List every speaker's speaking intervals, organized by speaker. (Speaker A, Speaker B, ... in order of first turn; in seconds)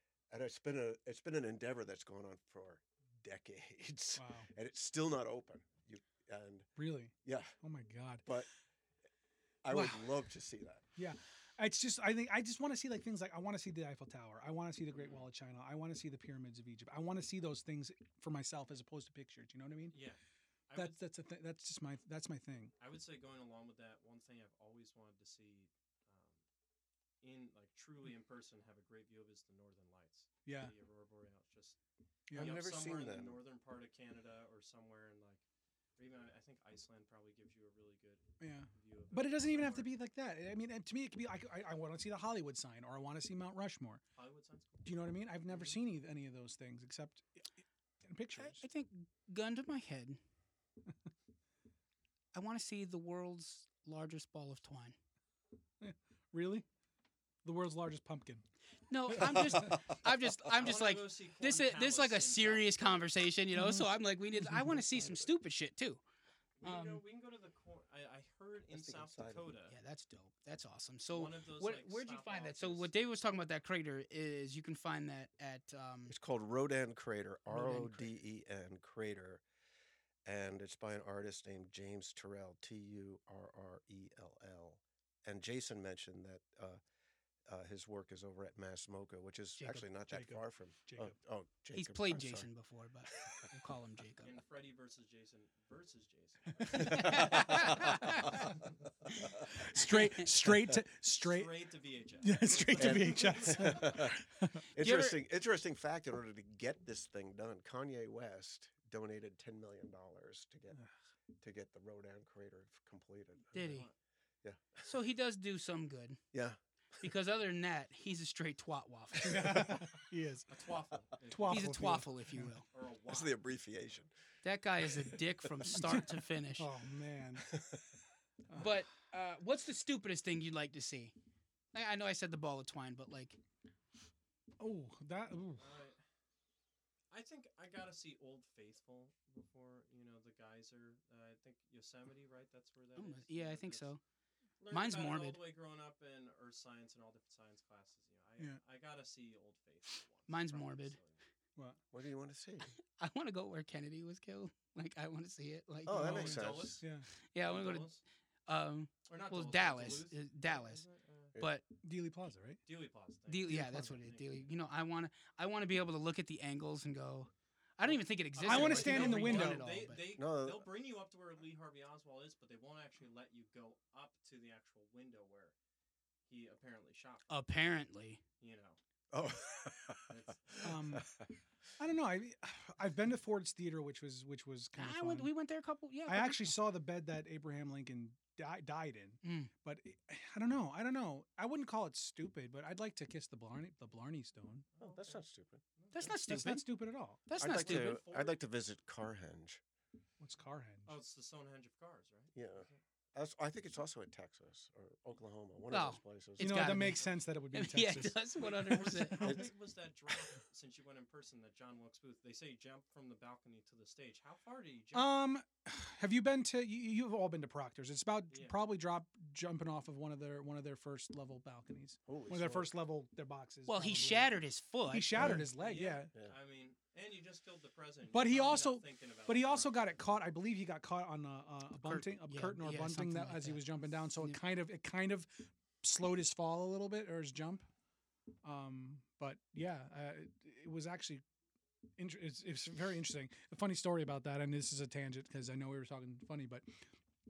Speaker A: 0.3-6.7, 7.2-7.5, 9.6-10.8, 32.3-33.4, 59.4-60.0, 64.9-65.3, 68.7-69.5, 76.1-79.4, 80.2-86.8, 87.5-92.5, 93.1-93.4, 96.8-98.5, 102.7-110.8, 111.4-113.6, 114.4-114.9, 116.3-116.6, 123.1-124.1, 127.4-127.9, 151.9-152.7, 155.8-156.8, 170.0-170.7, 179.1-181.3, 194.8-196.1, 197.4-199.6, 202.3-206.8, 209.2-209.5, 222.1-222.7, 225.1-225.5
Speaker B: 4.2-4.5, 6.8-8.3, 9.7-10.1, 10.9-20.0, 20.8-22.7, 30.5-30.7, 32.3-32.5, 38.4-44.0, 44.8-47.4, 48.0-48.6, 55.8-56.6, 57.4-58.4, 59.1-59.8, 63.5-63.9, 64.4-64.8, 90.1-91.1, 99.4-101.5, 102.2-104.7, 119.2-120.5, 121.3-122.5, 125.7-127.5, 134.6-135.7, 156.0-157.1, 161.8-162.6, 163.5-163.9, 168.4-169.6, 180.6-181.1, 181.8-185.3, 186.1-194.7, 196.1-197.2, 200.2-200.9, 206.4-209.5, 214.9-226.1, 228.1-237.7, 238.4-241.2, 242.0-246.7
Speaker C: 14.9-15.3, 19.9-21.0, 22.8-26.4, 27.2-31.8, 32.3-35.4, 36.0-39.9, 44.1-44.9, 60.5-63.1, 66.6-69.7, 71.1-72.9, 94.2-98.7, 101.2-104.1, 113.5-113.9, 120.5-122.0, 122.7-123.4, 135.6-136.0, 137.1-143.9, 144.6-151.2, 156.1-156.9, 157.4-158.0, 159.1-161.3, 162.7-164.5, 167.8-175.5, 176.3-177.3, 178.4-178.8, 180.1-180.8, 194.7-195.2, 195.8-196.1, 197.4-198.4, 200.9-202.8, 208.4-215.1, 218.3-218.6, 225.5-230.0
Speaker D: 48.4-50.2, 52.3-55.0, 58.9-66.0, 66.6-67.0, 69.7-76.1, 77.5-78.2, 89.6-89.8, 91.7-94.3, 96.7-98.4, 99.7-100.2, 104.8-105.2, 113.5-113.9, 114.8-116.2, 117.0-119.7, 121.5-122.6, 124.4-126.7, 128.5-131.1, 131.7-133.4, 143.0-144.0, 144.7-145.4, 150.3-151.0, 152.9-156.5, 157.3-157.9, 158.5-160.8, 161.4-161.6, 163.3-170.0, 177.3-178.2, 184.8-186.6, 189.2-189.5, 195.9-196.7, 197.2-198.0, 205.7-209.4, 223.7-225.4, 231.8-234.4